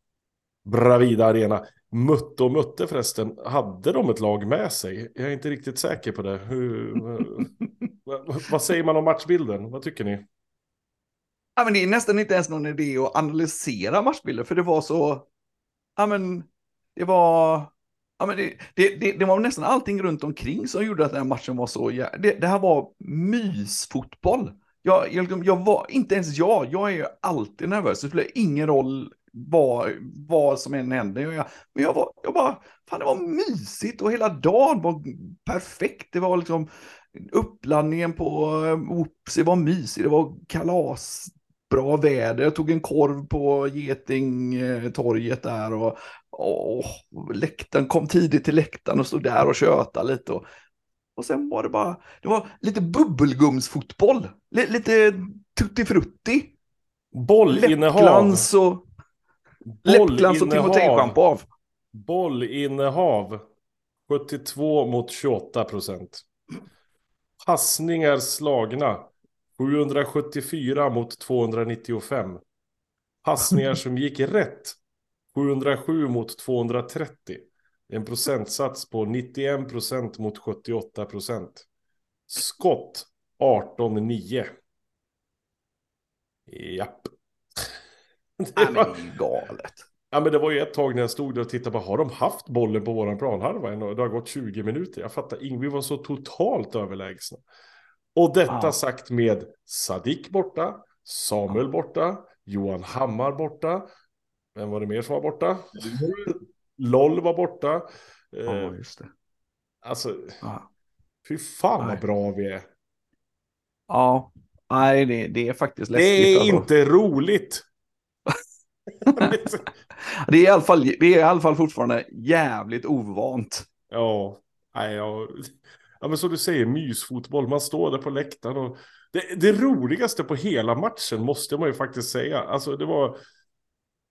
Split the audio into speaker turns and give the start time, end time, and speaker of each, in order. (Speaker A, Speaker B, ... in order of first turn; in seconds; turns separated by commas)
Speaker A: 0.6-7.5, Speaker A: 8.1-10.2, Speaker B: 11.6-15.3, Speaker B: 16.0-50.5, Speaker B: 51.1-56.5, Speaker A: 57.1-58.5, Speaker B: 57.5-58.8, Speaker A: 59.8-61.1, Speaker B: 59.8-61.5, Speaker A: 61.9-63.4, Speaker A: 64.1-66.2, Speaker A: 67.4-72.4, Speaker A: 73.2-74.8, Speaker A: 75.3-81.7, Speaker A: 82.3-84.5, Speaker A: 86.5-87.1, Speaker A: 88.4-89.0, Speaker B: 88.6-89.8, Speaker A: 90.1-97.4, Speaker A: 98.1-103.8, Speaker B: 98.5-98.8, Speaker A: 104.5-108.8, Speaker B: 108.5-109.1, Speaker A: 109.8-110.4, Speaker B: 110.4-110.7, Speaker A: 111.2-112.7, Speaker B: 113.9-116.7, Speaker A: 115.9-117.6, Speaker B: 119.0-119.3, Speaker A: 119.1-119.7, Speaker B: 120.0-123.7, Speaker A: 123.9-133.2